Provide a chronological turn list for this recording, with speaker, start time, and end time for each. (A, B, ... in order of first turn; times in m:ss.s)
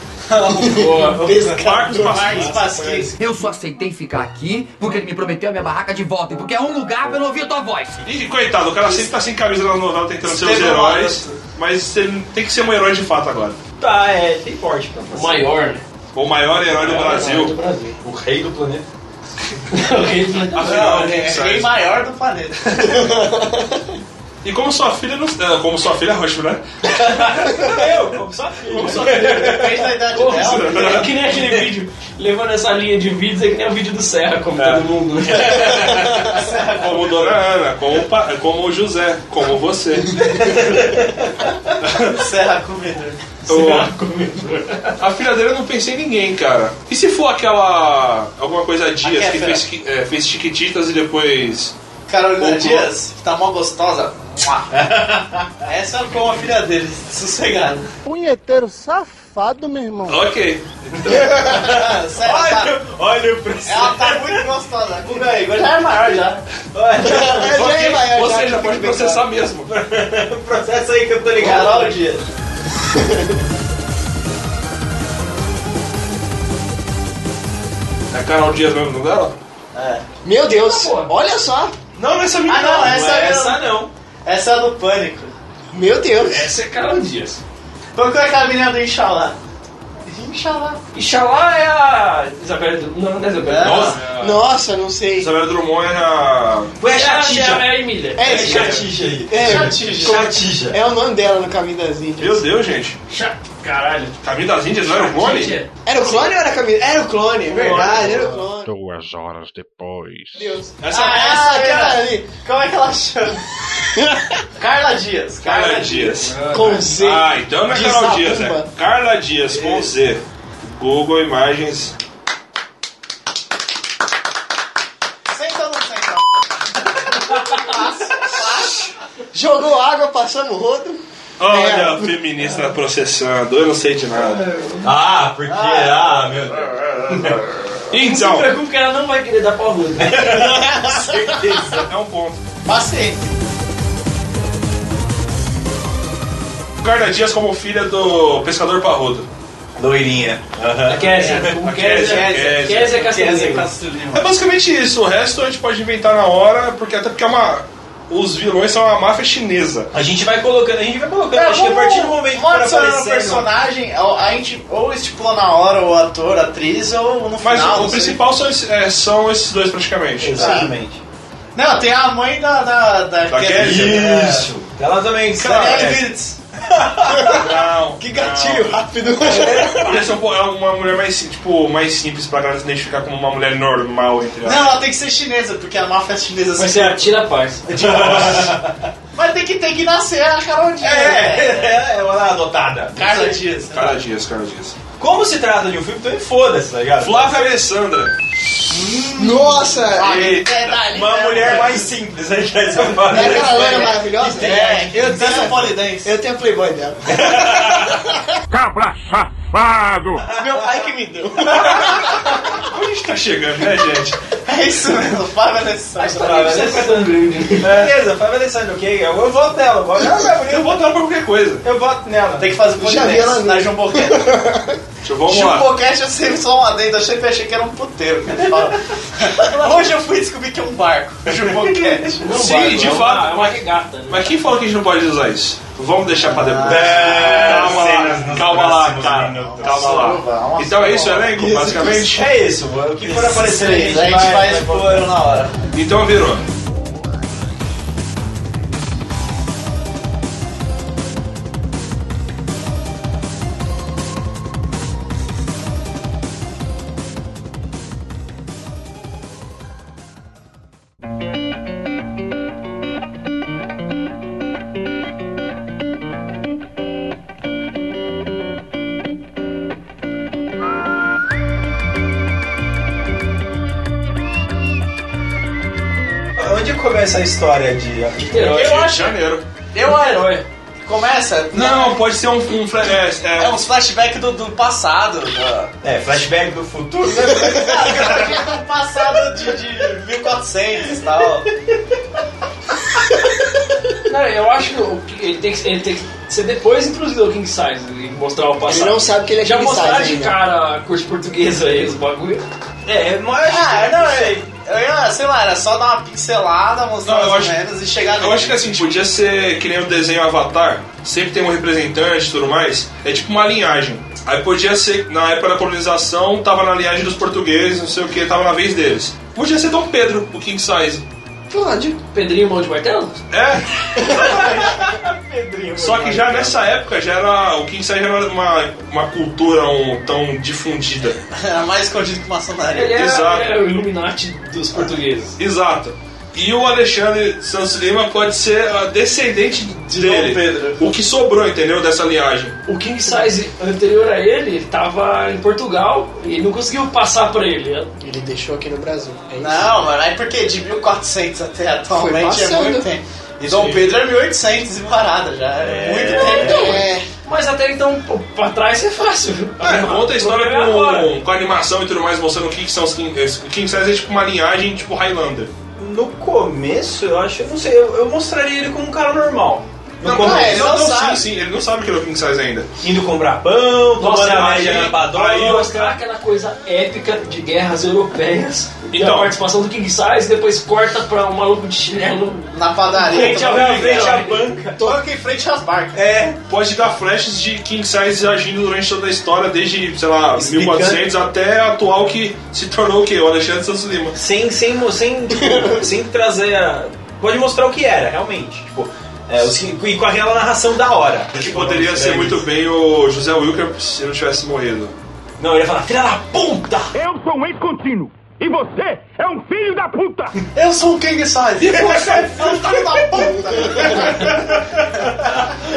0:00.3-0:03.2 A
0:00.6-0:01.3 B
0:00.6-0:02.3 C
0:01.6-0:02.7 D
0:02.2-0:03.1 E
0:03.2-0:08.0 F
0:08.0-0:13.6 D
0:10.2-0:11.4 A
0:13.8-0:15.5 E
0:15.1-0:15.8 B
0:16.1-0:17.5 D
0:16.7-0:18.0 B
0:18.0-0:18.8 E
0:19.7-0:20.9 B
0:20.5-0:21.8 D
0:20.6-0:23.2 A
0:23.0-0:23.5 C
0:24.4-0:26.6 D
0:26.9-0:29.8 E
0:28.8-0:29.3 D
0:28.8-0:31.1 A
0:29.0-0:29.5 B
0:30.1-0:36.1 B
0:30.3-0:31.1 D
0:34.6-0:36.2 E
0:36.1-0:37.4 A
0:36.7-0:40.3 D
0:40.3-0:41.2 E
0:41.8-0:42.2 D
0:42.1-0:43.2 A
0:43.4-0:45.0 B
0:43.5-0:43.9 D
0:45.0-0:51.7 D
0:49.0-0:49.6 A
0:52.1-0:54.8 A
0:52.4-0:52.9 D
0:54.7-0:55.5 E
0:55.6-0:57.9 A
0:58.3-0:59.6 C
1:00.0-1:01.4 D
1:00.9-1:04.4 E
1:01.4-1:02.8 A
1:03.6-1:06.4 A
1:06.7-1:07.8 E
1:07.0-1:09.2 C
1:07.4-1:09.7 D
1:09.6-1:12.0 E
1:11.3-1:12.2 A
1:13.0-1:13.2 C
1:18.1-1:19.3 D
1:19.7-1:20.0 A
1:20.2-1:21.8 C
1:20.5-1:21.1 B
1:22.0-1:23.0 D
1:22.5-1:25.3 A
1:22.5-1:23.9 E
1:25.7-1:26.5 C
1:26.2-1:27.4 B
1:27.9-1:29.4 A
1:30.1-1:30.8 A
1:30.9-1:34.4 B
1:33.4-1:34.0 A
1:33.6-1:34.0 E
1:34.2-1:35.3 C
1:35.2-1:36.7 D
1:36.8-1:40.8 E
1:36.9-1:38.7 B
1:38.2-1:42.4 C
1:38.4-1:38.8 D
1:39.4-1:40.2 A
1:42.2-1:43.0 D
1:43.1-1:44.2 B
1:44.2-1:45.5 D
1:44.8-1:46.3 B
1:45.8-1:48.7 C
1:47.5-1:48.4 B
1:47.8-1:48.3 A
1:48.6-1:50.5 G
1:50.3-1:52.3 C
1:50.8-1:51.4 D
1:50.9-1:53.4 A
1:54.6-1:56.3 A
1:55.4-1:56.4 D
1:56.2-1:57.0 B
1:56.5-1:58.7 C
1:56.9-2:01.9 D
2:05.3-2:08.9 A
2:09.3-2:12.2 C
2:11.4-2:14.4 D
2:14.8-2:17.4 E
2:15.5-2:17.3 A
2:17.9-2:18.5 D
2:17.9-2:20.4 B
2:20.0-2:21.9 E
2:21.8-2:22.4 D
2:22.6-2:23.3 A
2:26.8-2:29.3 D
2:29.8-2:31.6 E
2:30.9-2:33.7 B
2:31.6-2:32.9 D
2:32.0-2:34.3 A
2:34.1-2:39.9 D
2:39.9-2:43.5 E
2:41.3-2:48.2 A
2:47.4-2:50.6 D
2:50.2-2:51.0 E
2:50.4-2:50.7 A
2:51.5-2:54.5 A
2:53.3-2:54.0 D
2:53.5-2:57.5 E
2:55.3-2:56.4 A
2:57.1-2:57.4 C
2:57.3-2:58.8 D
2:58.0-3:00.0 C
2:59.2-3:00.0 E
2:59.7-3:04.8 D
3:04.4-3:07.1 A
3:06.6-3:07.7 B
3:07.7-3:08.6 A
3:07.7-3:08.7 E
3:09.1-3:11.8 A
3:10.8-3:13.4 E
3:12.9-3:14.0 A
3:13.7-3:14.8 D
3:15.0-3:17.5 E
3:17.0-3:18.1 D
3:19.1-3:20.4 C
3:19.2-3:21.9 A
3:20.0-3:20.8 D
3:20.8-3:25.4 E
3:22.8-3:26.2 A
3:23.1-3:28.2 C
3:27.1-3:27.8 E
3:28.5-3:30.2 H
3:30.2-3:32.2 C
3:30.2-3:30.7 E
3:31.4-3:32.2 E
3:32.0-3:34.2 D
3:34.4-3:36.8 A
3:36.0-3:37.9 B
3:36.2-3:40.8 E
3:40.4-3:41.6 D
3:41.6-3:42.6 E
3:42.4-3:44.3 A
3:42.8-3:44.8 C
3:45.0-3:45.7 D
3:45.3-3:52.2 A
3:48.4-3:48.7 E
3:51.3-3:52.1 E
3:52.2-3:54.4 B
3:52.3-4:02.3 D
3:56.2-3:58.0 A
3:56.6-4:00.1 E
3:59.4-4:02.0 A
4:01.5-4:05.1 E
4:03.0-4:05.6 A
4:05.7-4:06.4 D
4:36.4-4:38.6 E
4:38.2-4:39.0 B
4:38.5-4:39.4 D
4:38.6-4:39.1 A
4:39.7-4:42.0 A
4:39.8-4:40.4 B
4:41.5-4:43.6 D
4:43.4-4:45.7 A
4:45.8-4:48.3 E
4:47.4-4:51.5 A
4:54.0-5:02.4 B
4:58.6-5:00.4 C
5:02.9-5:04.5 E
5:03.4-5:09.0 A
5:07.0-5:07.6 D
5:08.1-5:21.0 D
5:21.5-5:22.0 C
5:22.1-5:23.1 B
5:23.3-5:24.8 D
5:24.0-5:26.7 E
5:25.8-5:31.2 D
5:31.3-5:33.0 A
5:32.7-5:35.4 B
5:33.0-5:33.5 D
5:35.4-5:42.6 D
5:39.9-5:40.8 A
5:42.6-5:47.9 B
5:48.0-5:49.7 C
5:49.4-5:56.8 A
5:51.9-5:52.9 C
5:55.6-5:56.9 E
5:56.4-5:57.0 C
5:56.4-6:01.1 B
5:59.6-6:05.5 D
6:05.8-6:10.8 E
6:10.0-6:12.7 D
6:10.0-6:11.2 A
6:12.8-6:15.9 E
6:14.0-6:24.4 B
6:18.9-6:19.3 D
6:22.5-6:24.1 A
6:23.0-6:24.9 E
6:24.8-6:26.1 A
6:25.9-6:26.4 E
6:26.4-6:34.2 D
6:30.4-6:31.1 E
6:34.1-6:42.4 E
6:35.4-6:35.8 C
6:41.3-6:44.9 D
6:45.4-6:46.9 E
6:46.9-6:50.3 H
6:50.5-6:54.6 A
6:51.6-6:53.3 E